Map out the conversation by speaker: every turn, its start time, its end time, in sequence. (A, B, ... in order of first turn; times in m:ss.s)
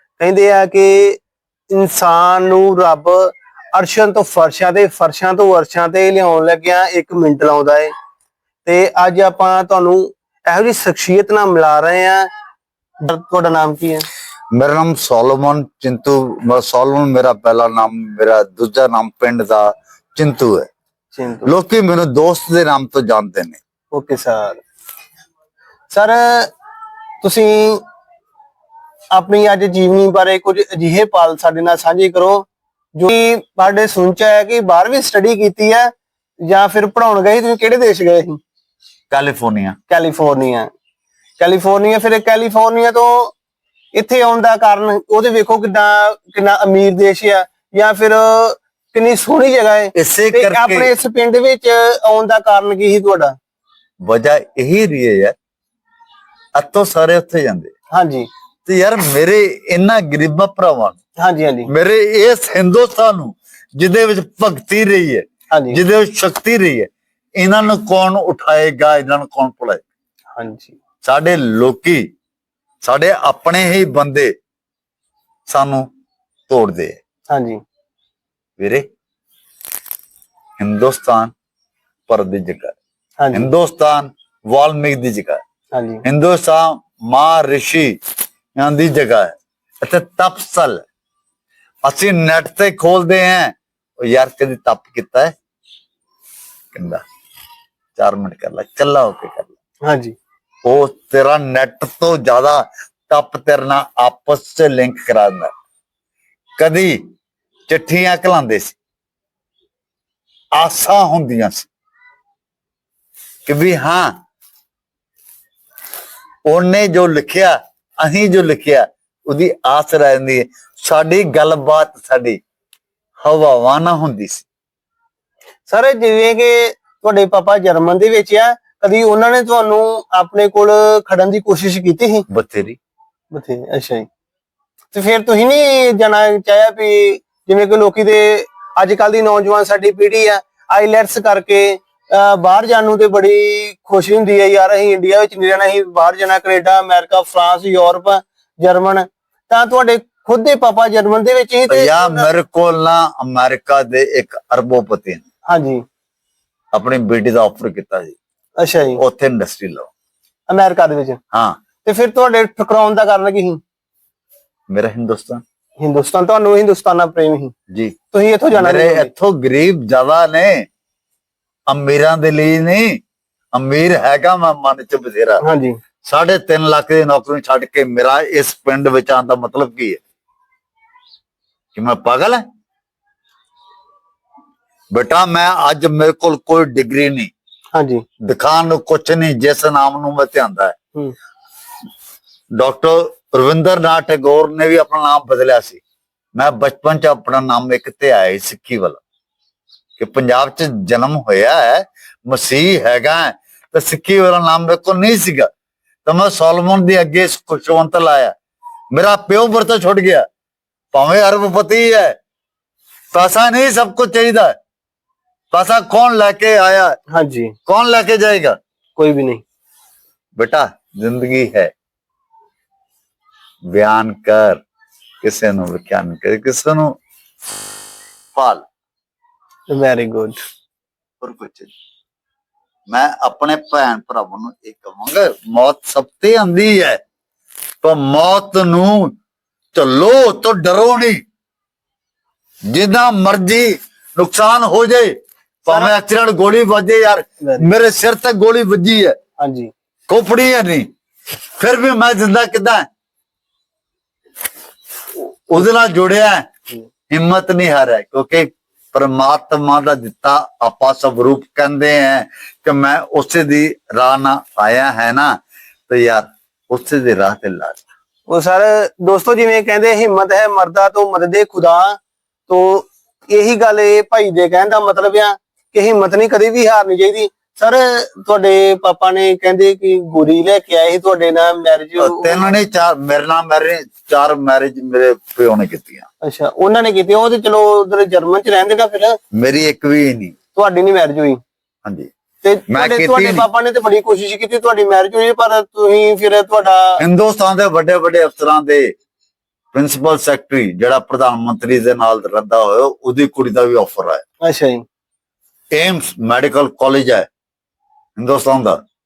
0:00.2-0:01.2 A
0:01.7-0:07.9 A
0:08.6-0:12.3 A
0:13.0-0:14.0 A
0:14.5-0:20.7 B
0:21.1-0:21.5 A
0:21.4-0:23.6 B
0:23.9-0:24.6 A
0:25.9-0:26.5 A
0:27.2-0:27.8 A
0:29.1-0:32.4 A
0:33.0-0:35.9 A
0:36.4-0:38.4 A
0:39.1-0:39.8 B
0:39.9-0:40.7 A
0:41.4-0:43.3 A
0:43.9-0:53.3 A
0:49.9-0:50.9 B
0:54.0-0:55.3 B
0:56.6-0:57.7 B
0:57.9-0:58.3 A
0:58.6-1:01.0 B
1:01.2-1:01.7 A
1:01.7-1:09.8 B
1:05.5-1:05.8 A
1:10.4-1:10.8 A
1:11.0-1:12.0 B
1:12.8-1:14.3 B
1:15.5-1:15.9 B
1:16.5-1:17.0 B
1:17.3-1:17.6 A
1:18.6-1:18.8 B
1:20.6-1:21.3 B
1:22.1-1:22.8 B
1:23.2-1:23.5 A
1:23.3-1:25.4 B
1:25.7-1:26.0 A
1:26.0-1:28.0 B
1:28.6-1:30.8 B
1:31.8-1:35.3 B
1:36.7-1:37.0 B
1:38.0-1:39.5 B
1:39.8-1:40.1 A
1:40.6-1:45.5 B
1:46.6-1:47.0 B
1:47.7-1:48.8 B
1:50.6-1:51.7 B
1:53.5-1:54.1 B
1:56.5-2:02.4 B
2:03.2-2:04.4 B
2:05.7-2:12.2 A
2:12.3-2:12.8 B
2:13.3-2:14.1 A
2:14.9-2:32.3 A
2:31.7-2:35.2 B
2:35.5-2:35.8 A
2:36.7-2:38.2 B
2:38.6-2:39.0 A
2:39.0-2:39.9 B
2:40.5-2:41.2 A
2:41.3-2:41.6 B
2:41.8-2:43.6 A
2:44.7-2:45.4 B
2:45.8-2:47.5 A
2:48.1-2:49.1 A
2:48.5-2:50.6 B
2:51.7-2:53.0 B
2:53.5-2:55.4 B
2:55.4-2:55.8 A
2:56.0-3:00.0 B
3:01.7-3:02.4 B
3:04.9-3:07.3 B
3:07.7-3:08.0 A
3:08.2-3:10.7 B
3:12.6-3:15.8 B
3:16.4-3:19.0 B
3:20.0-3:25.5 B
3:26.0-3:28.3 B
3:28.9-3:30.2 B
3:30.9-3:32.2 B
3:33.1-3:34.5 B
3:35.5-3:37.0 B
3:37.1-3:37.5 A
3:37.7-3:38.6 B
3:39.0-3:39.4 A
3:40.4-3:41.7 B
3:43.7-3:44.6 B
3:45.2-3:46.9 B
3:48.3-3:48.6 B
3:49.7-3:50.4 A
3:51.2-3:51.7 B
3:52.9-3:57.0 B
3:57.8-3:59.1 B
3:59.7-4:01.2 B
4:02.7-4:05.1 B
4:05.6-4:09.2 B
4:07.4-4:07.7 A
4:09.4-4:09.7 A
4:10.1-4:10.9 B
4:11.6-4:12.8 B
4:15.2-4:16.5 B
4:17.1-4:25.3 B
4:25.9-4:27.8 B
4:28.3-4:42.5 A
4:42.0-4:46.0 B
4:46.2-4:49.2 A
4:49.3-4:50.3 B
4:50.5-4:51.4 A
4:51.8-4:52.1 B
4:52.4-4:57.0 A
4:52.7-4:53.4 B
4:57.0-4:58.9 B
4:59.7-5:04.2 B
5:04.4-5:04.8 A
5:05.7-5:07.3 B
5:08.2-5:08.8 B